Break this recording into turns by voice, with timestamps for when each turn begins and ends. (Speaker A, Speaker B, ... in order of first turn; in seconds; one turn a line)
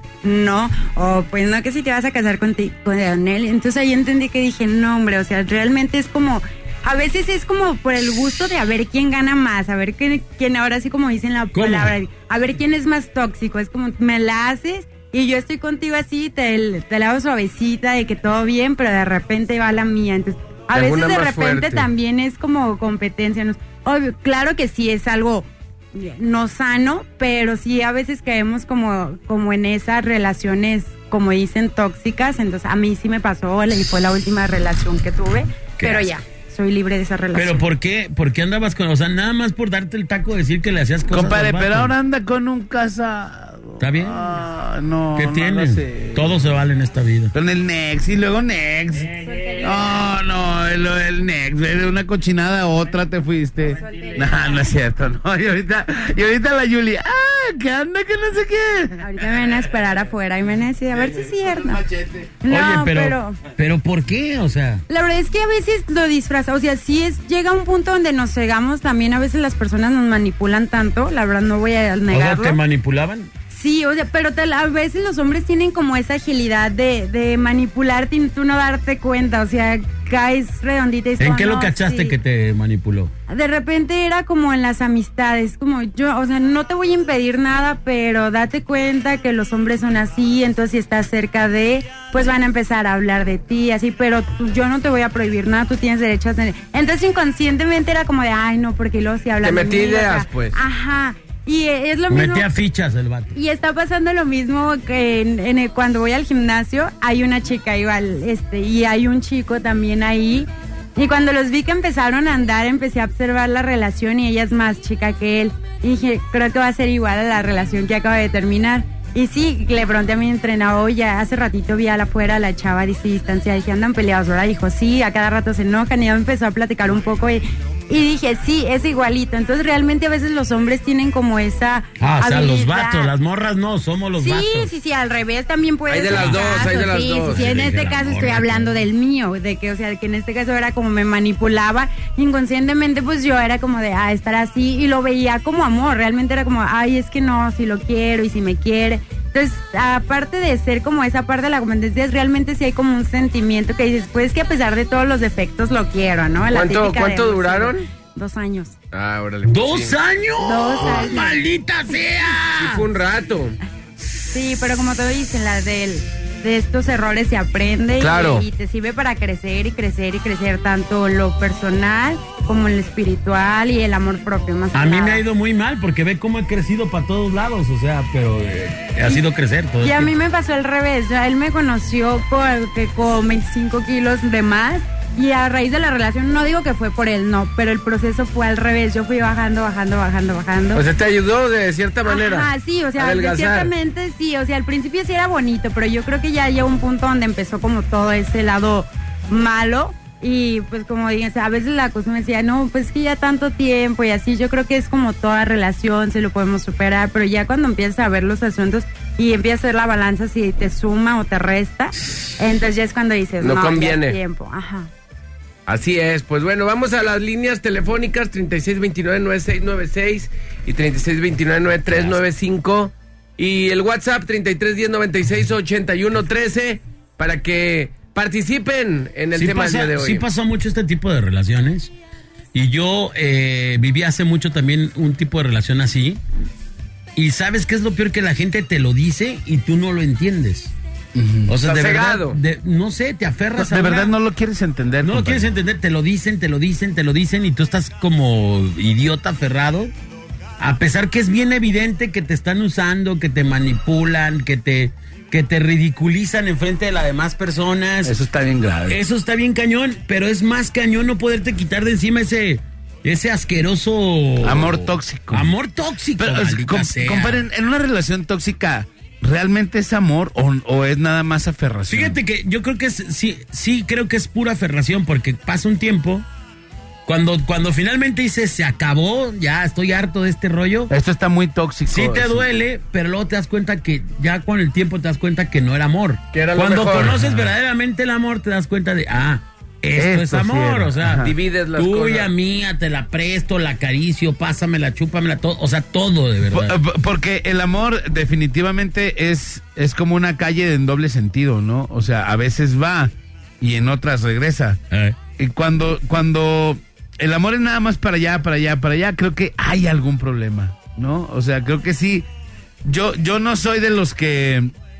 Speaker A: 0.2-37.7
Speaker B: 11.5-12.0
Speaker C: 20.7-21.9
Speaker B: 35.8-36.1
Speaker B: 37.3-41.9
Speaker D: 41.1-46.5
Speaker B: 43.8-44.3
Speaker B: 45.1-47.3
Speaker D: 47.3-59.1
Speaker A: 49.2-49.9
Speaker A: 53.8-54.7
Speaker A: 59.0-61.8
Speaker D: 60.9-62.3
Speaker A: 62.4-63.4
Speaker B: 62.5-64.8
Speaker A: 64.9-72.6
Speaker B: 72.1-73.3
Speaker A: 73.5-82.1
Speaker B: 81.2-83.1
Speaker A: 83.3-102.5
Speaker C: 99.4-100.6
Speaker B: 102.1-103.3
Speaker A: 103.3-133.1
Speaker B: 132.0-134.7
Speaker A: 134.2-158.8
Speaker C: 135.9-137.6
Speaker B: 136.1-136.4
Speaker B: 137.3-138.8
Speaker C: 156.5-157.8
Speaker C: 158.9-159.9
Speaker B: 159.4-162.8
Speaker A: 160.4-161.4
Speaker C: 162.6-163.6
Speaker A: 164.3-175.2
Speaker C: 168.0-168.5
Speaker B: 174.7-180.1
Speaker A: 179.8-190.8
Speaker C: 190.7-193.7
Speaker A: 192.0-214.9
Speaker C: 213.4-214.2
Speaker C: 215.7-230.2
Speaker B: 229.3-231.9
Speaker B: 232.5-236.2
Speaker B: 237.2-240.7
Speaker D: 241.1-241.5
Speaker B: 241.5-244.1
Speaker C: 241.6-242.4
Speaker D: 243.6-245.5
Speaker B: 245.0-249.9
Speaker B: 250.6-258.2
Speaker D: 258.0-259.0
Speaker B: 258.9-267.5
Speaker D: 264.4-265.5
Speaker D: 266.1-272.2
Speaker B: 271.9-276.2
Speaker B: 277.1-280.9
Speaker D: 280.9-282.5
Speaker B: 281.9-296.8
Speaker C: 286.3-287.2
Speaker D: 289.9-291.3
Speaker C: 291.2-292.3
Speaker D: 296.5-304.8
Speaker B: 304.9-305.2
Speaker D: 305.4-312.3
Speaker D: 312.8-314.7